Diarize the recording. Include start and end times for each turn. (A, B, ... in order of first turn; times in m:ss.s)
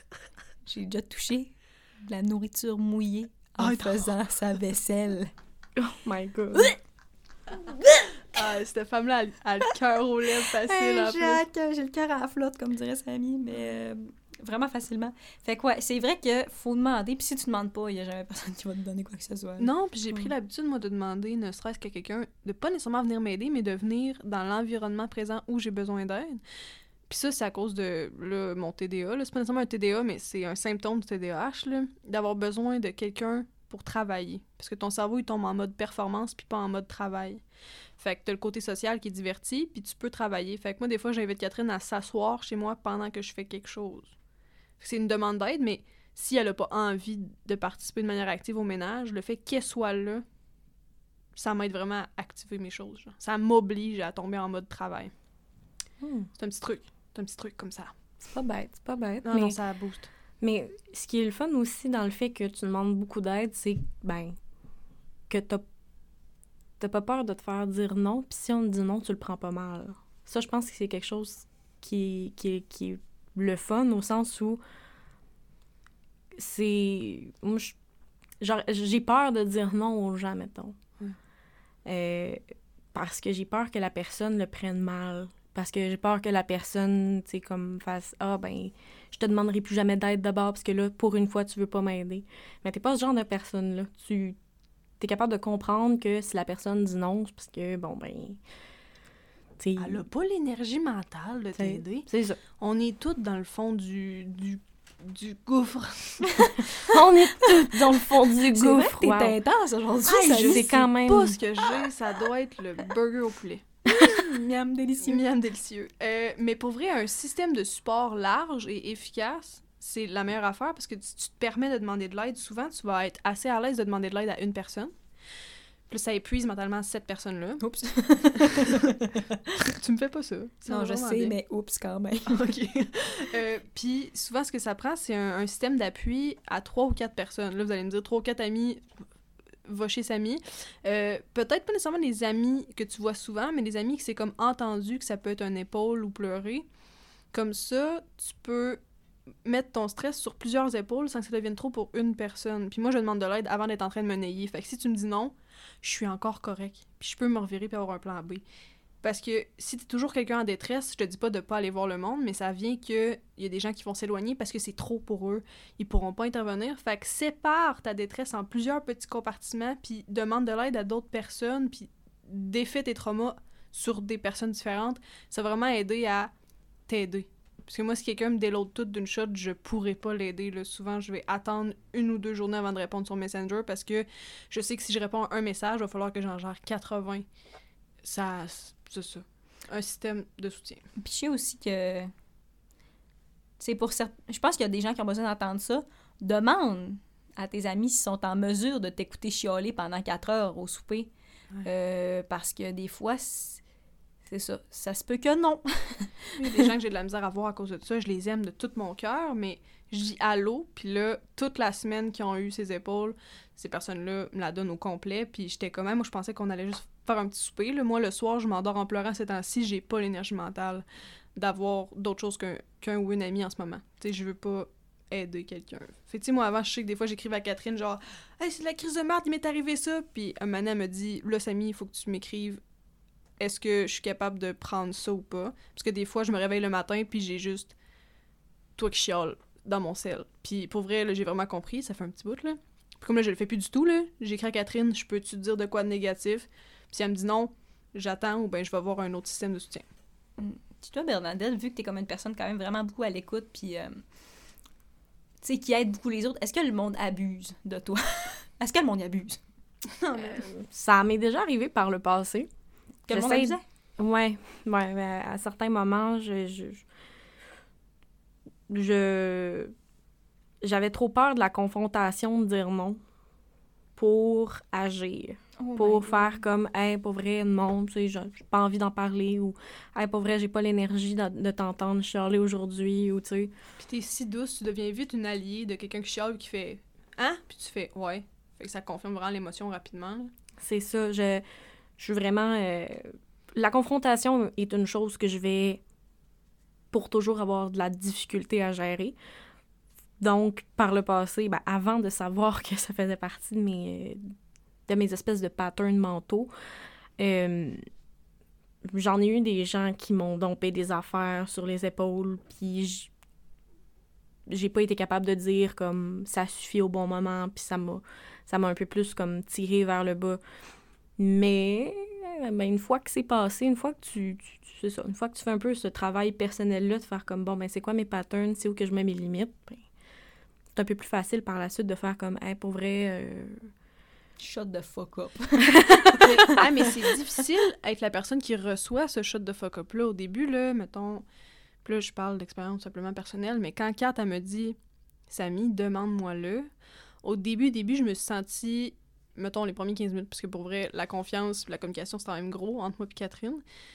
0:00.7-0:05.3 A
0:03.6-0:04.1 B
0:05.8-0:06.8 C
0:08.3-0:11.4 B
0:10.6-0:19.7 A
0:19.6-0:26.4 B
0:27.1-0:37.4 B
0:38.0-0:44.1 B
0:44.8-0:50.2 B
0:51.4-0:55.1 B
0:56.0-0:56.3 C
0:56.4-0:57.9 B
0:58.3-0:59.6 C
0:59.2-1:00.1 B
1:00.4-1:04.4 C
1:05.3-1:05.6 C
1:06.8-1:14.6 C
1:16.3-1:17.8 C
1:18.4-1:20.8 C
1:21.8-1:34.4 C
1:35.0-1:38.4 C
1:39.6-1:40.0 C
1:39.8-1:42.1 B
1:41.6-1:42.4 C
1:42.6-1:46.6 B
1:46.2-1:46.6 A
1:46.9-1:49.4 C
1:47.4-1:50.7 A
1:50.1-1:53.8 B
1:50.3-1:51.4 C
1:53.9-1:55.2 A
1:55.0-2:04.9 B
2:05.9-2:08.1 B
2:07.6-2:09.2 A
2:09.7-2:11.4 B
2:10.7-2:12.5 A
2:12.3-2:18.8 B
2:19.6-2:26.7 B
2:27.3-2:28.8 B
2:29.4-2:38.4 B
2:39.0-2:56.3 B
2:56.9-3:07.3 B
3:08.0-3:10.8 B
3:11.0-3:12.1 A
3:13.6-3:21.1 A
3:21.6-3:23.6 A
3:24.3-3:26.6 A
3:26.4-3:40.8 B
3:41.4-3:52.6 B
3:53.4-3:57.8 B
3:58.8-4:09.9 B
4:10.4-4:14.0 A
4:15.4-4:19.4 A
4:20.0-4:20.5 B
4:20.2-4:22.5 C
4:23.1-4:23.6 A
4:23.1-4:26.8 C
4:28.7-4:29.7 C
4:30.6-4:33.0 C
4:34.0-4:43.5 C
4:35.6-4:36.4 A
4:43.8-4:50.3 B
4:50.6-4:51.4 C
4:52.0-4:55.8 C
4:56.9-4:59.2 C
5:00.2-5:04.3 C
5:04.9-5:06.5 C
5:07.2-5:07.8 C
5:08.9-5:13.1 C
5:14.5-5:20.4 C
5:21.2-5:29.9 C
5:30.8-5:33.7 C
5:34.4-5:36.2 A
5:35.8-5:36.2 C
5:36.2-5:41.2 B
5:41.8-5:44.8 B
5:45.3-5:46.7 B
5:47.2-5:53.6 B